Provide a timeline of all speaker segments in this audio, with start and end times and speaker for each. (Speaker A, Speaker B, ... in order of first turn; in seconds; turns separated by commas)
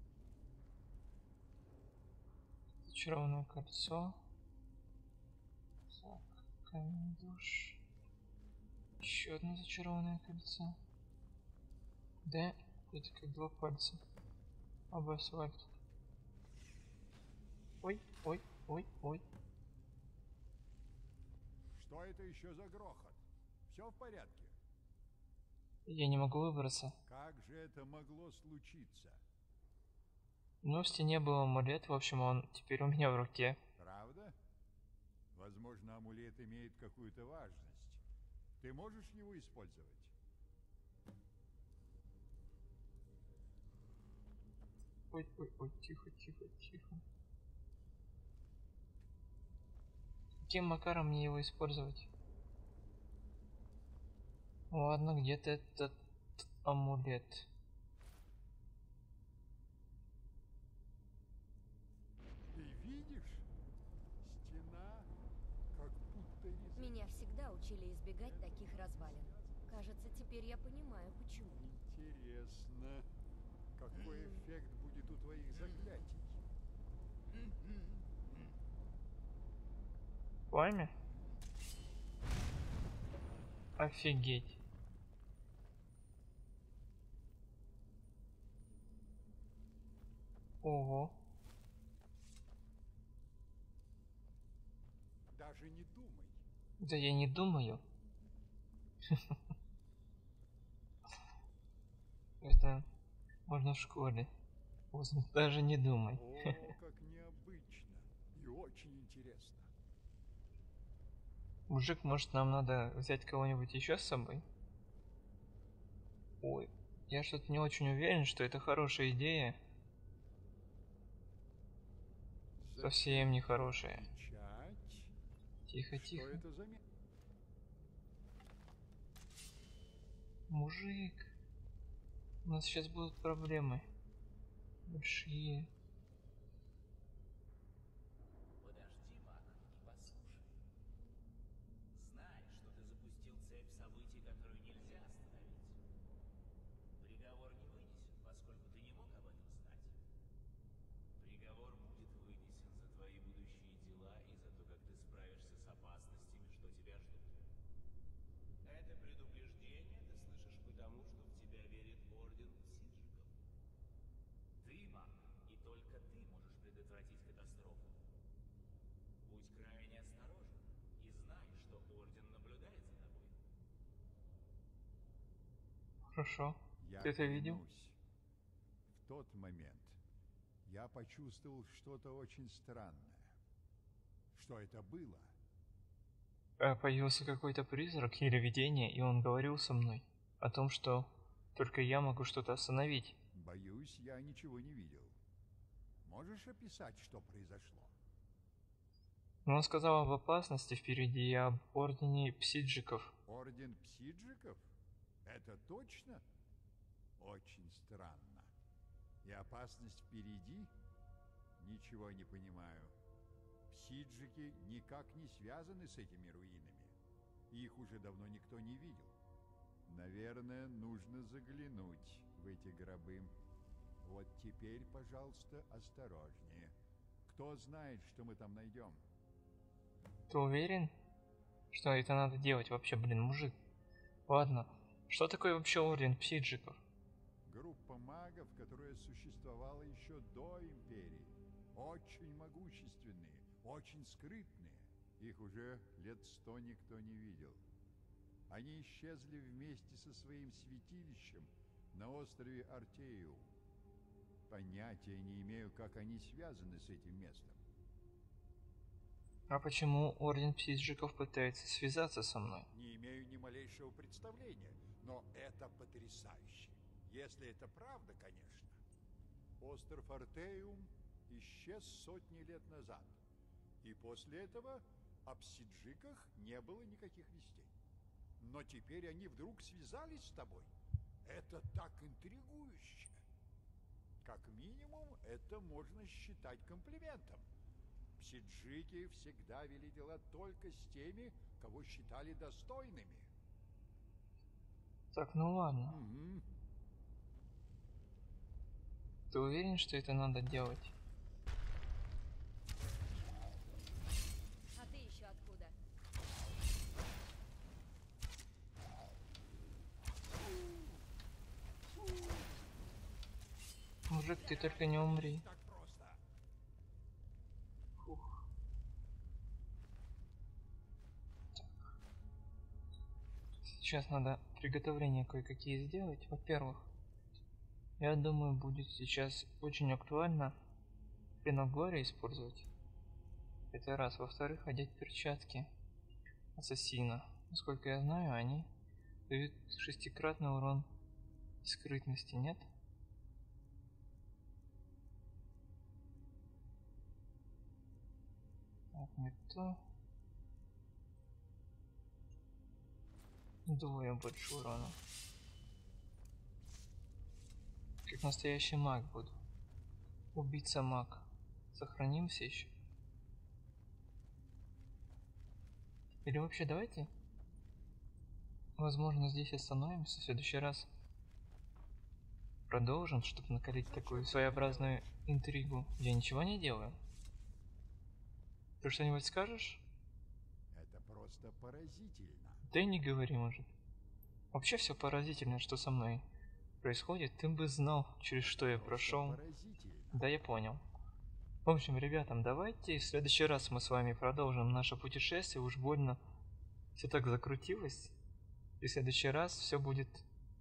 Speaker A: 2.9-4.2, Speaker A: 5.9-7.8, Speaker A: 9.0-10.8, Speaker A: 12.2-14.0, Speaker A: 14.9-15.7, Speaker A: 17.8-19.2, Speaker B: 21.7-24.5, Speaker A: 25.9-26.9, Speaker B: 27.1-29.2, Speaker A: 30.6-33.6, Speaker B: 33.8-34.4, Speaker B: 35.3-38.0, Speaker B: 38.6-40.1, Speaker A: 45.1-47.0, Speaker A: 50.5-52.1, Speaker A: 54.7-57.5, Speaker B: 62.5-63.5, Speaker B: 64.2-65.1, Speaker B: 65.7-67.2, Speaker C: 66.8-71.8, Speaker B: 68.2-70.1, Speaker B: 71.7-73.1, Speaker B: 73.8-76.4, Speaker A: 80.5-80.9, Speaker A: 83.8-84.6, Speaker A: 90.6-91.2, Speaker B: 95.3-96.4, Speaker A: 96.8-97.8, Speaker A: 99.1-99.4, Speaker A: 102.4-102.9, Speaker A: 103.5-104.3, Speaker A: 104.9-106.7, Speaker B: 106.1-109.7, Speaker A: 111.7-114.5, Speaker A: 116.4-119.6, Speaker B: 122.6-125.1, Speaker A: 122.8-124.1, Speaker A: 125.7-126.4, Speaker B: 125.9-126.8, Speaker A: 130.5-131.3, Speaker A: 132.4-133.9, Speaker A: 134.9-135.7, Speaker D: 138.6-140.5, Speaker D: 141.9-145.8, Speaker D: 147.0-149.9, Speaker D: 151.2-157.3, Speaker D: 158.6-163.3, Speaker D: 164.6-168.0, Speaker D: 169.2-173.4, Speaker A: 176.1-177.6, Speaker B: 176.8-178.0, Speaker B: 178.9-180.0, Speaker B: 180.7-183.3, Speaker B: 184.3-185.3, Speaker A: 186.6-193.2, Speaker B: 193.3-195.2, Speaker B: 196.0-197.9, Speaker A: 199.4-203.1, Speaker B: 203.3-204.7, Speaker B: 205.2-206.2, Speaker B: 207.2-208.5, Speaker B: 209.2-210.7, Speaker B: 211.6-212.9, Speaker B: 213.7-216.9, Speaker B: 217.5-219.2, Speaker B: 219.9-223.3, Speaker B: 224.0-226.7, Speaker B: 227.2-229.0, Speaker A: 230.3-230.9, Speaker A: 231.7-233.6, Speaker A: 234.3-236.8, Speaker B: 237.5-247.6, Speaker B: 248.5-253.5, Speaker B: 254.5-257.6, Speaker A: 259.5-262.7, Speaker B: 262.7-268.8, Speaker B: 269.6-273.2, Speaker B: 273.8-277.7, Speaker B: 278.4-280.7, Speaker B: 281.2-283.2, Speaker B: 284.2-287.5, Speaker B: 288.2-293.3, Speaker A: 295.1-296.0, Speaker B: 295.9-296.5, Speaker A: 299.3-300.9, Speaker C: 304.8-305.8, Speaker A: 314.1-315.5, Speaker B: 314.4-316.2, Speaker A: 318.0-318.4, Speaker A: 323.7-326.9, Speaker A: 328.0-330.6, Speaker A: 331.4-332.7, Speaker A: 333.7-335.7, Speaker A: 336.6-338.7, Speaker A: 339.3-340.9, Speaker A: 341.6-342.7, Speaker A: 348.9-349.8, Speaker A: 353.7-355.0, Speaker A: 358.1-359.4, Speaker A: 360.3-362.7, Speaker A: 366.2-367.1, Speaker A: 368.8-370.9, Speaker A: 372.7-377.0, Speaker B: 373.8-375.0, Speaker A: 378.8-379.9, Speaker B: 380.7-382.6, Speaker A: 382.7-383.7, Speaker A: 384.5-386.2, Speaker A: 386.8-389.4, Speaker B: 388.4-390.3, Speaker A: 390.1-390.8, Speaker A: 391.6-396.2, Speaker A: 397.0-398.1, Speaker A: 398.8-400.2